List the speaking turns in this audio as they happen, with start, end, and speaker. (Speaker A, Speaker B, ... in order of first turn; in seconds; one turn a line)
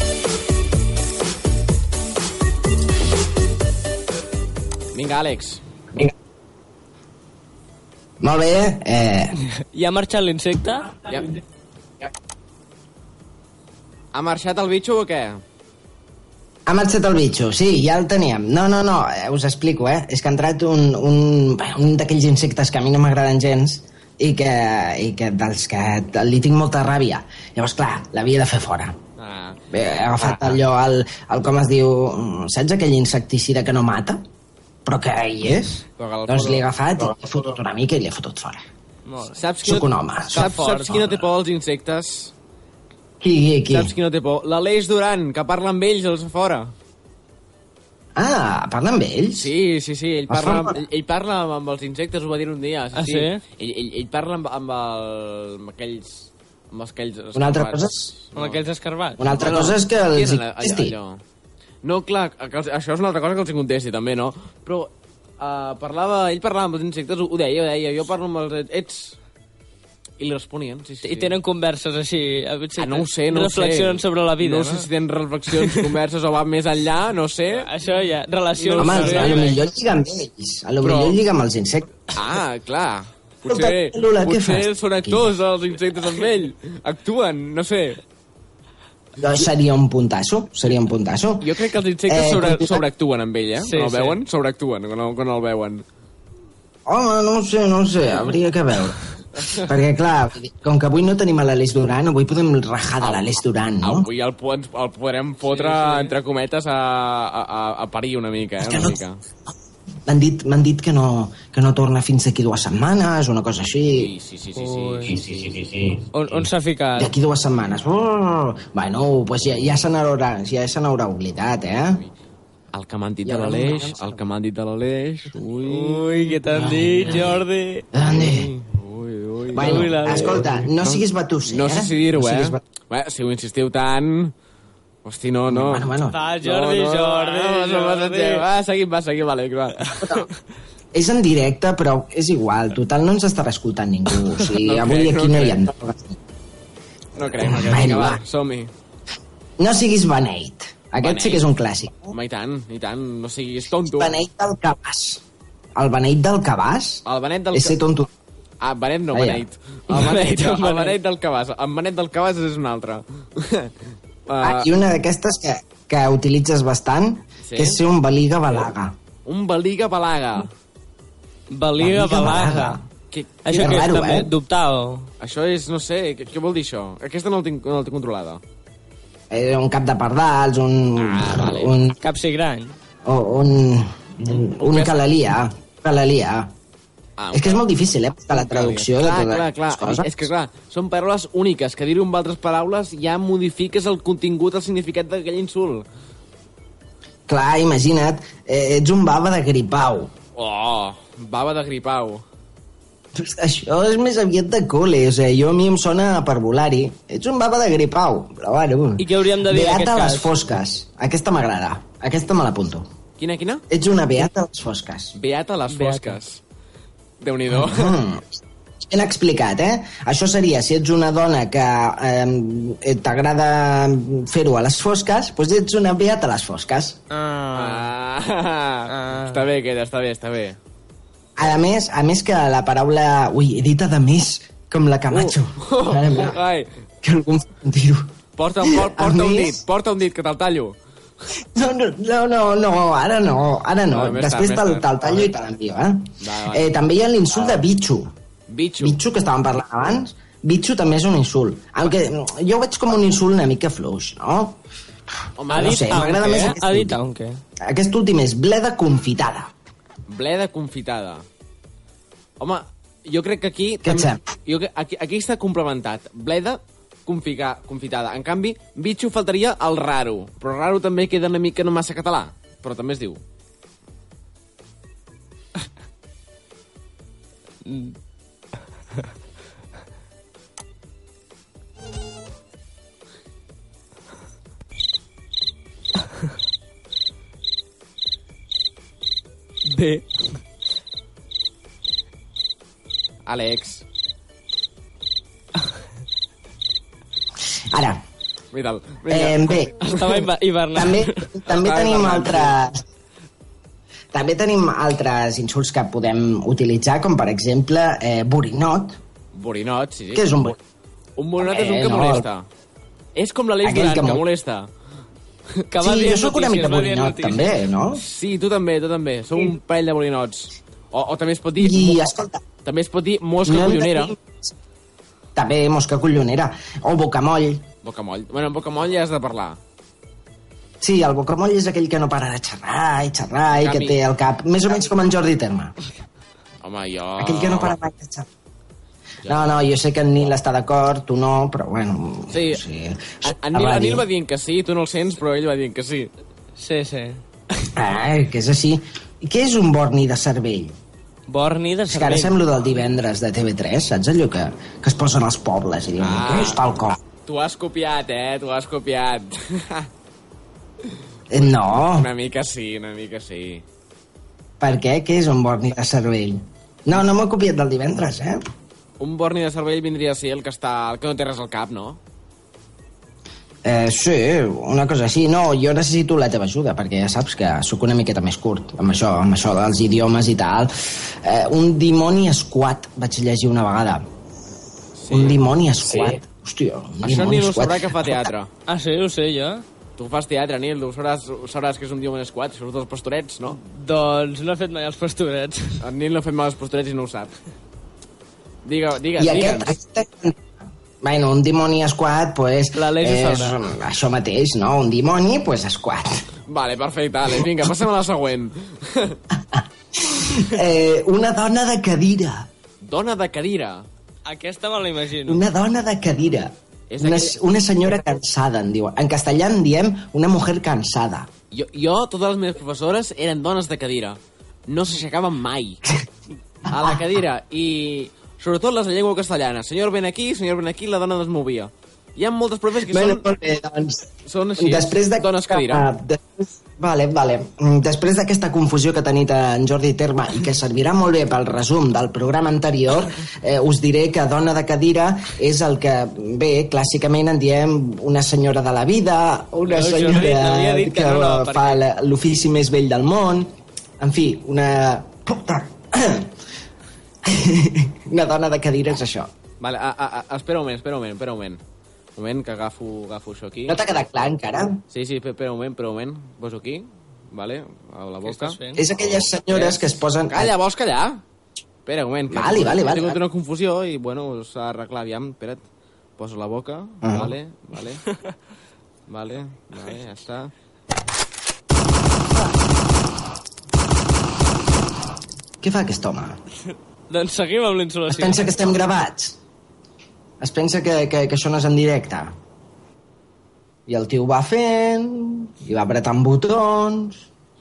Speaker A: 4.9-5.6
Speaker B: 8.2-9.4
Speaker C: 9.7-11.0
Speaker A: 14.1-15.4
Speaker B: 16.7-29.0
Speaker A: 29.2-29.6
Speaker B: 29.7-34.2
Speaker A: 30.2-30.5
Speaker B: 34.9-38.6
Speaker A: 36.0-36.7
Speaker C: 39.1-39.4
Speaker A: 39.4-42.3
Speaker B: 39.6-41.0
Speaker C: 40.3-41.0
Speaker B: 43.2-43.9
Speaker A: 43.7-46.7
Speaker B: 48.2-49.5
Speaker A: 49.3-58.6
Speaker B: 50.3-50.8
Speaker C: 53.0-53.4
Speaker B: 57.4-58.1
Speaker C: 58.4-59.2
Speaker B: 59.2-61.0
Speaker A: 59.2-61.2
Speaker A: 61.8-69.2
Speaker A: 70.2-71.3
Speaker C: 71.0-74.9
Speaker A: 72.8-77.7
Speaker C: 75.5-75.8
Speaker C: 77.5-79.6
Speaker A: 78.6-79.6
Speaker B: 78.8-81.9
Speaker A: 80.8-81.2
Speaker A: 82.1-88.0
Speaker B: 83.5-85.3
Speaker B: 89.2-91.5
Speaker A: 91.4-95.8
Speaker B: 92.1-92.8
Speaker C: 93.6-94.2
Speaker B: 96.9-104.1
Speaker A: 99.4-99.6
Speaker A: 103.0-103.3
Speaker A: 103.8-109.2
Speaker C: 105.5-106.1
Speaker B: 108.6-109.0
Speaker B: 110.1-114.1
Speaker A: 113.9-116.0
Speaker C: 114.6-115.2
Speaker B: 115.3-115.7
Speaker C: 116.1-117.1
Speaker B: 117.0-122.0
Speaker A: 122.7-126.3
Speaker B: 123.2-124.2
Speaker C: 125.6-127.9
Speaker B: 126.5-127.4
Speaker B: 127.9-128.5
Speaker A: 128.2-134.3
Speaker B: 129.5-132.6
Speaker C: 129.6-130.4
Speaker A: 135.1-140.0
Speaker B: 135.5-136.2
Speaker C: 136.1-138.4
Speaker B: 140.9-146.2
Speaker A: 144.6-145.7
Speaker A: 147.2-148.7
Speaker B: 147.2-148.2
Speaker B: 149.6-152.1
Speaker A: 151.0-151.5
Speaker A: 152.1-154.2
Speaker B: 153.9-155.2
Speaker B: 155.8-158.1
Speaker A: 157.1-157.8
Speaker A: 158.6-163.7
Speaker B: 159.1-159.4
Speaker C: 159.9-161.0
Speaker A: 164.3-164.7
Speaker B: 164.4-168.9
Speaker A: 167.4-167.8
Speaker A: 169.3-170.5
Speaker C: 171.5-172.8
Speaker B: 171.8-172.8
Speaker A: 173.1-173.9
Speaker C: 173.4-175.1
Speaker B: 173.6-174.3
Speaker A: 175.2-178.4
Speaker B: 179.3-182.0
Speaker A: 181.0-181.8
Speaker C: 182.0-182.8
Speaker B: 183.1-186.5
Speaker A: 184.7-185.0
Speaker A: 187.2-187.7
Speaker B: 187.3-190.3
Speaker A: 188.3-195.8
Speaker B: 197.3-200.1
Speaker A: 200.4-202.2
Speaker B: 203.2-212.9
Speaker C: 209.0-210.3
Speaker A: 213.2-213.6
Speaker B: 213.7-215.2
Speaker A: 215.2-216.4
Speaker C: 215.7-216.2
Speaker A: 217.2-218.0
Speaker B: 217.5-227.0
Speaker C: 227.1-227.9
Speaker A: 227.5-230.6
Speaker C: 228.9-229.4
Speaker B: 231.4-236.4
Speaker A: 235.1-236.7
Speaker B: 237.0-239.6
Speaker A: 238.4-240.8
Speaker B: 241.4-248.1
Speaker A: 243.9-245.0
Speaker A: 246.2-246.8
Speaker A: 248.5-249.0
Speaker B: 248.8-254.6
Speaker A: 255.4-256.6
Speaker B: 255.5-257.0
Speaker C: 255.5-257.4
Speaker B: 257.6-259.5
Speaker A: 260.1-261.2
Speaker A: 262.4-273.2
Speaker B: 263.8-264.2
Speaker C: 277.6-277.9
Speaker C: 289.7-290.1
Speaker A: 293.3-293.8
Speaker B: 297.7-298.0
Speaker A: 298.5-300.2
Speaker B: 299.1-299.7
Speaker C: 299.9-301.3
Speaker B: 300.7-302.8
Speaker A: 301.5-302.6
Speaker B: 304.1-309.0
Speaker A: 309.3-310.5
Speaker B: 310.1-310.6
Speaker A: 311.2-312.5
Speaker B: 311.4-312.3
Speaker A: 313.1-314.7
Speaker B: 313.6-314.2
Speaker C: 315.7-317.6
Speaker B: 315.8-318.0
Speaker A: 318.0-322.0
Speaker B: 321.6-322.4
Speaker A: 322.6-324.1
Speaker B: 323.4-324.5
Speaker B: 325.4-327.6
Speaker A: 327.8-329.6
Speaker B: 330.8-335.7
Speaker A: 333.5-334.0
Speaker A: 336.6-337.8
Speaker B: 337.2-338.3
Speaker A: 339.2-339.7
Speaker B: 339.3-344.1
Speaker A: 342.3-342.6
Speaker A: 343.2-346.1
Speaker C: 346.6-347.2
Speaker B: 347.8-350.8
Speaker C: 351.3-352.4
Speaker B: 351.9-357.0
Speaker A: 356.0-356.7
Speaker A: 357.2-359.9
Speaker B: 361.3-362.1
Speaker A: 361.4-363.6
Speaker B: 364.6-368.5
Speaker A: 369.0-372.0
Speaker B: 373.6-384.1
Speaker A: 385.0-385.4
Speaker B: 385.1-388.3
Speaker A: 387.0-388.5
Speaker C: 388.7-389.6
Speaker A: 390.0-393.6
Speaker C: 393.6-395.8
Speaker A: 395.8-397.3
Speaker A: 398.6-399.8
Speaker B: 399.2-400.5
Speaker B: 401.0-406.2
Speaker C: 402.7-403.6
Speaker A: 406.5-409.2
Speaker B: 409.3-412.5
Speaker A: 412.8-413.9
Speaker C: 414.3-415.4
Speaker B: 415.3-421.3
Speaker A: 416.9-417.4
Speaker A: 421.5-425.8
Speaker A: 426.7-433.3
Speaker B: 432.9-456.3
Speaker A: 434.2-435.9
Speaker C: 449.6-451.8
Speaker B: 457.2-459.3
Speaker A: 459.6-461.6
Speaker A: 462.2-463.8
Speaker B: 463.7-464.8
Speaker A: 464.9-471.2
Speaker C: 468.2-468.8
Speaker B: 468.8-470.5
Speaker A: 471.9-475.6
Speaker B: 472.3-473.2
Speaker A: 476.2-478.0
Speaker B: 477.0-477.3
Speaker A: 479.1-480.5
Speaker B: 485.6-486.4
Speaker C: 487.1-488.7
Speaker B: 488.1-489.4
Speaker B: 490.4-492.3
Speaker B: 493.9-497.2